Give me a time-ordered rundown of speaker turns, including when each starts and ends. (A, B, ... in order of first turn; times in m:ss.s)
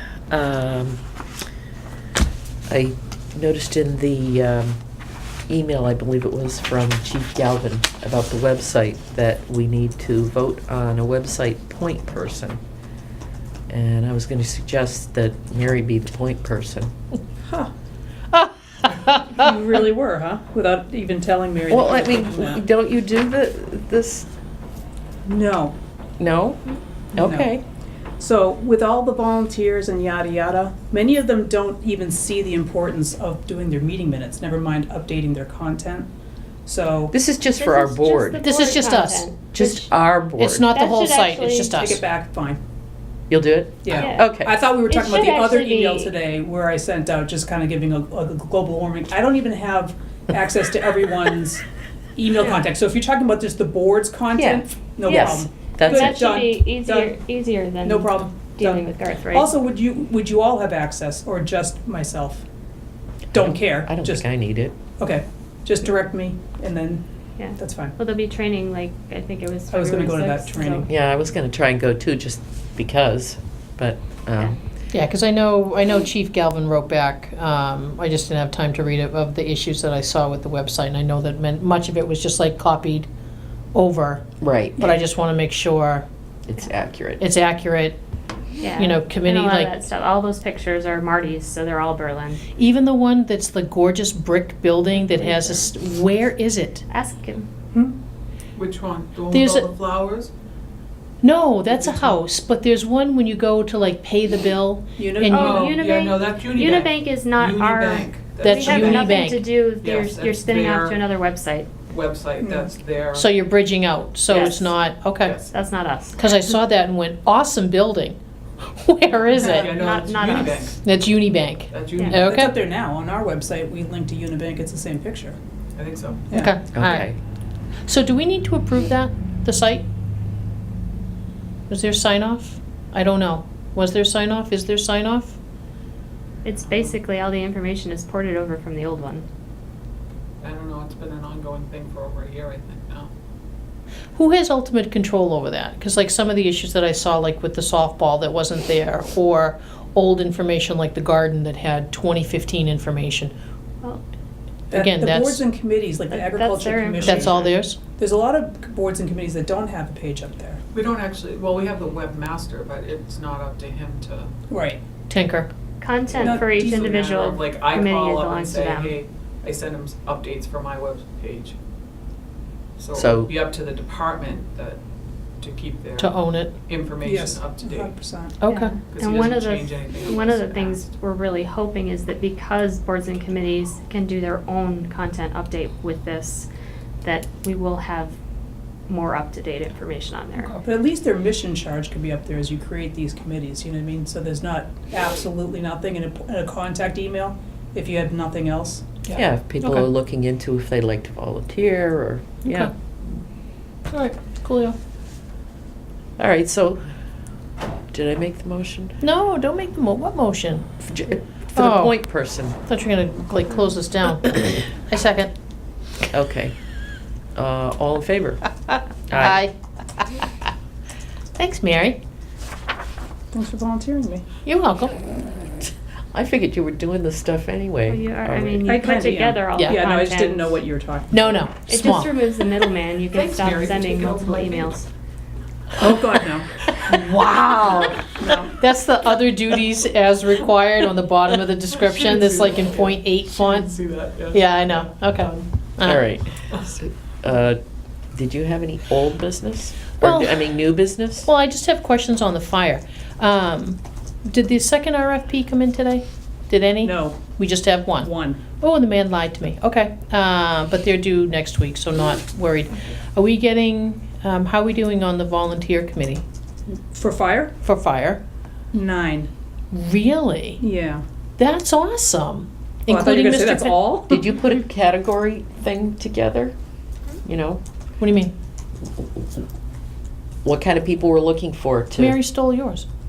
0:00.3-0:01.0 A
0:02.7-0:04.8 A
0:05.5-0:12.6 A
0:13.7-0:16.9 A
0:18.3-0:19.5 B
0:19.4-0:22.6 C
0:21.7-0:24.3 A
0:25.2-0:25.8 C
0:26.2-0:26.6 A
0:27.1-0:27.6 A
0:27.2-0:27.5 C
0:28.2-0:36.1 C
0:36.6-0:37.1 C
0:37.1-0:38.4 A
0:37.5-0:39.9 D
0:38.4-0:39.3 B
0:39.5-0:40.6 A
0:40.4-0:42.0 B
0:40.6-0:41.8 D
0:41.8-0:42.6 C
0:43.3-0:44.5 A
0:43.8-0:51.6 C
0:43.9-0:46.1 D
0:52.2-0:57.2 C
0:54.4-0:56.2 A
0:55.0-0:59.5 D
0:57.8-1:02.4 C
1:03.3-1:04.3 C
1:03.3-1:04.7 A
1:05.0-1:07.0 C
1:07.4-1:10.8 D
1:07.6-1:07.9 C
1:09.7-1:10.8 C
1:10.9-1:14.5 A
1:14.9-1:23.1 B
1:23.7-1:24.2 B
1:24.4-1:24.8 A
1:24.8-1:26.1 B
1:26.5-1:27.2 A
1:27.2-1:28.0 B
1:28.6-1:32.4 D
1:28.8-1:29.7 B
1:32.6-1:36.8 B
1:35.0-1:35.7 D
1:36.9-1:37.5 D
1:38.6-1:40.3 E
1:39.3-1:39.7 B
1:41.2-1:45.7 B
1:41.8-1:42.2 C
1:45.0-1:45.6 C
1:45.3-1:51.7 D
1:45.3-1:51.0 E
1:48.4-1:49.4 B
1:51.9-1:53.3 E
1:52.4-1:52.7 C
1:53.1-1:55.4 B
1:54.3-1:54.7 D
1:55.2-1:55.5 E
1:55.5-1:56.2 D
1:56.2-1:59.7 B
1:59.3-2:00.8 E
1:59.4-2:00.7 D
2:00.8-2:02.6 B
2:01.7-2:02.3 E
2:02.2-2:05.4 C
2:05.7-2:06.3 E
2:06.3-2:07.1 B
2:06.7-2:07.2 A
2:07.8-2:09.8 B
2:11.7-2:15.4 B
2:16.4-2:19.2 D
2:16.7-2:17.0 E
2:20.4-2:23.1 E
2:24.1-2:33.3 B
2:34.7-2:35.4 B
2:34.7-2:40.6 C
2:36.1-2:37.5 D
2:37.0-2:37.8 B
2:40.7-2:44.3 E
2:44.5-2:44.8 C
2:45.1-2:45.5 B
2:45.8-2:49.0 D
2:46.1-2:51.6 E
2:46.2-2:46.9 C
2:52.8-2:54.8 E
2:52.9-2:53.3 A
2:55.4-2:57.9 E
2:56.0-2:56.5 B
2:57.0-2:58.4 C
2:58.4-2:58.7 B
2:58.5-3:06.5 D
2:58.8-3:00.9 E
3:07.0-3:08.2 D
3:08.9-3:10.5 D
3:10.5-3:19.1 C
3:19.1-3:22.7 A
3:19.6-3:19.9 B
3:22.4-3:22.7 B
3:23.9-3:24.8 B
3:26.2-3:26.8 A
3:27.9-3:28.9 A
3:29.0-3:30.7 B
3:30.8-3:32.6 A
3:31.6-3:32.0 B
3:32.7-3:35.3 B
3:36.1-3:36.5 A
3:37.4-3:38.4 A
3:39.1-3:39.4 A
3:39.1-3:40.2 B
3:41.4-3:42.0 B
3:43.3-3:44.2 C
3:44.4-3:45.0 B
3:46.1-3:48.7 A
3:47.9-3:50.4 D
3:48.6-3:51.2 C
3:51.1-3:52.1 B
3:51.7-3:54.9 D
3:53.1-3:54.7 E
3:55.8-3:56.5 C
3:56.9-4:03.7 B
3:57.4-3:58.5 C
4:01.9-4:04.7 E
4:04.3-4:06.0 B
4:05.8-4:07.6 A
4:08.1-4:11.3 A
4:10.0-4:10.4 B
4:11.2-4:26.2 B
4:16.8-4:17.2 C
4:18.0-4:18.4 C
4:26.9-4:27.5 C
4:27.6-4:28.2 B
4:28.7-4:29.3 C
4:29.7-4:30.6 B
4:30.6-4:31.0 C
4:31.4-4:34.0 B
4:32.9-4:34.3 C
4:34.1-4:36.5 A
4:37.2-4:37.6 A
4:38.0-4:38.3 B
4:40.4-4:42.2 A
4:42.0-4:42.8 B